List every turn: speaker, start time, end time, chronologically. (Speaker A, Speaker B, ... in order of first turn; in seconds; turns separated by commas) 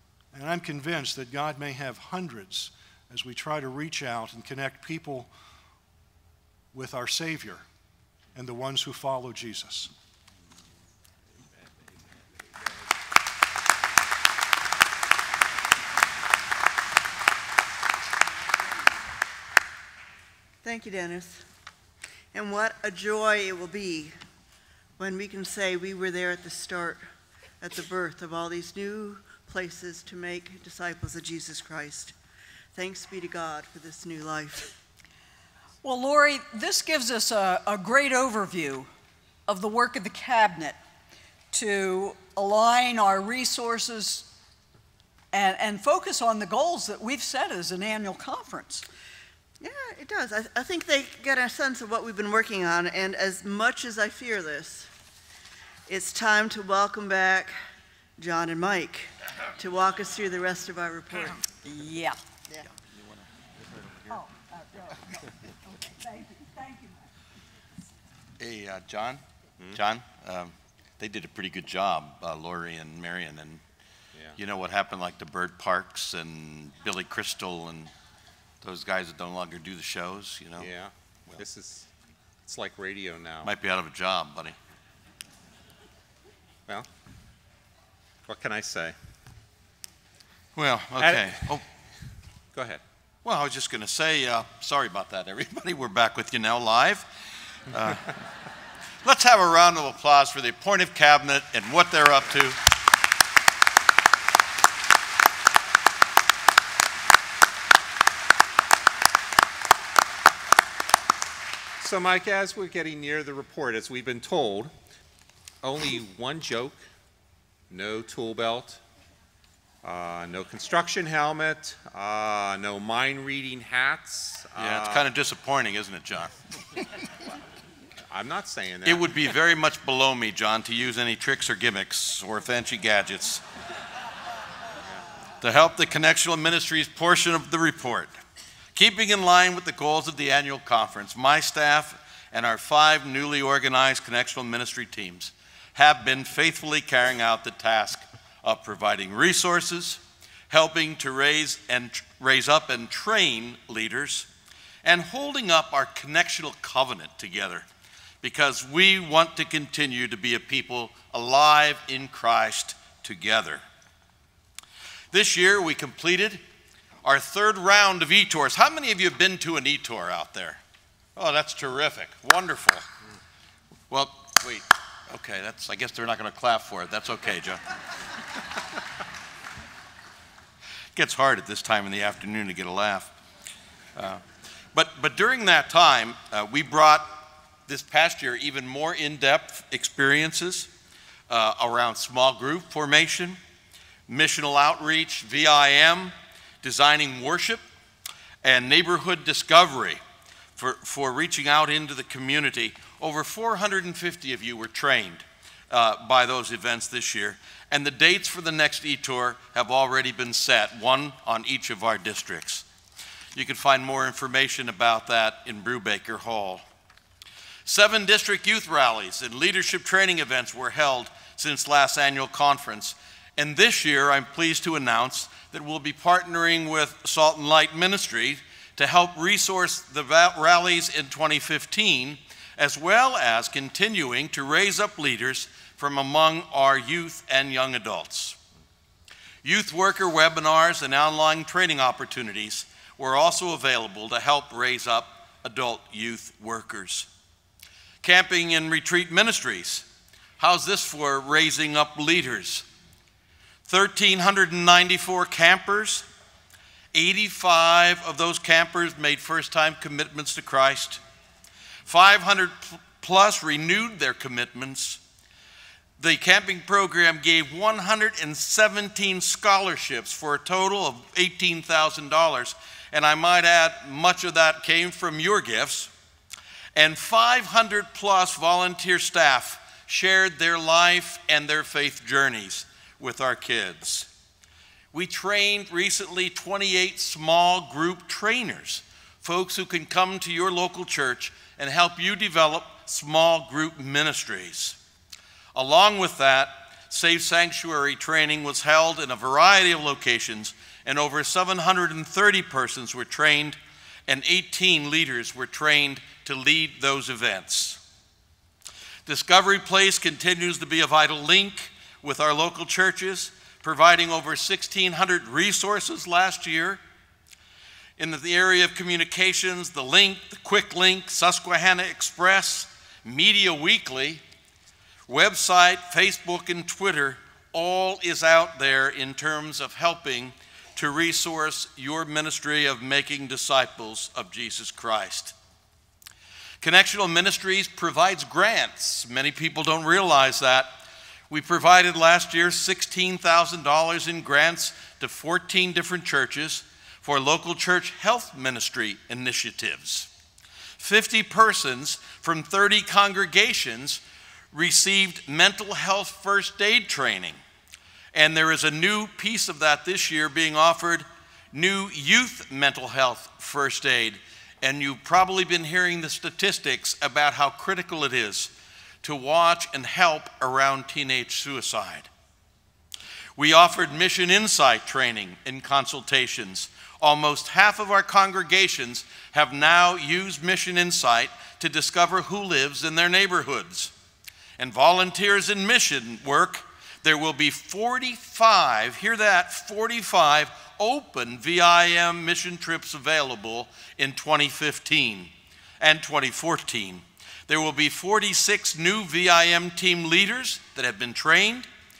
Speaker A: 0.3-5.3, Speaker A: 6.7-7.7, Speaker A: 8.3-9.9, Speaker B: 20.6-21.4, Speaker B: 22.3-24.1, Speaker B: 25.0-27.0, Speaker B: 27.6-32.1, Speaker B: 32.7-34.7, Speaker C: 35.8-38.9, Speaker C: 39.5-40.8, Speaker C: 41.5-44.3, Speaker C: 45.3-48.9, Speaker B: 49.6-54.9, Speaker B: 55.9-57.5, Speaker B: 58.2-61.4, Speaker C: 61.6-62.2, Speaker C: 64.1-65.1, Speaker C: 65.7-67.0, Speaker D: 68.4-69.2, Speaker D: 69.7-73.6, Speaker D: 74.4-77.9, Speaker D: 78.6-80.7, Speaker E: 80.6-81.9, Speaker E: 82.4-83.5, Speaker D: 83.4-84.6, Speaker E: 88.3-89.0, Speaker D: 90.6-91.6, Speaker E: 91.0-91.4, Speaker E: 92.5-92.8, Speaker D: 93.2-97.1, Speaker D: 97.7-98.1, Speaker D: 99.0-102.6, Speaker E: 111.8-114.7, Speaker E: 115.6-116.8, Speaker E: 117.7-118.8, Speaker E: 119.8-125.1, Speaker D: 124.6-126.4, Speaker E: 128.1-129.1, Speaker D: 128.8-133.4, Speaker D: 135.4-138.2, Speaker D: 138.7-154.3, Speaker D: 154.8-157.7, Speaker D: 158.2-163.6, Speaker D: 165.1-166.4, Speaker D: 167.0-170.6, Speaker D: 171.2-172.8, Speaker D: 173.9-177.6, Speaker D: 180.9-183.1, Speaker D: 184.0-184.2, Speaker D: 184.7-187.2, Speaker D: 187.7-190.7, Speaker D: 191.3-193.4, Speaker D: 194.1-197.6, Speaker D: 198.4-200.0, Speaker D: 200.6-212.7, Speaker D: 213.3-216.6, Speaker D: 217.7-238.4, Speaker D: 239.4-247.1, Speaker D: 248.0-249.8, Speaker D: 250.4-252.7, Speaker D: 253.7-256.1, Speaker D: 256.9-261.0, Speaker D: 261.9-265.0, Speaker D: 266.0-275.9, Speaker D: 276.8-284.1, Speaker D: 284.9-294.8, Speaker D: 295.5-307.8, Speaker D: 309.1-316.8, Speaker D: 318.0-324.2, Speaker D: 325.1-335.4, Speaker D: 336.6-340.7, Speaker D: 341.3-350.1, Speaker D: 350.8-357.4, Speaker D: 358.1-368.5, Speaker D: 369.0-372.1, Speaker D: 373.4-383.9, Speaker D: 384.6-401.7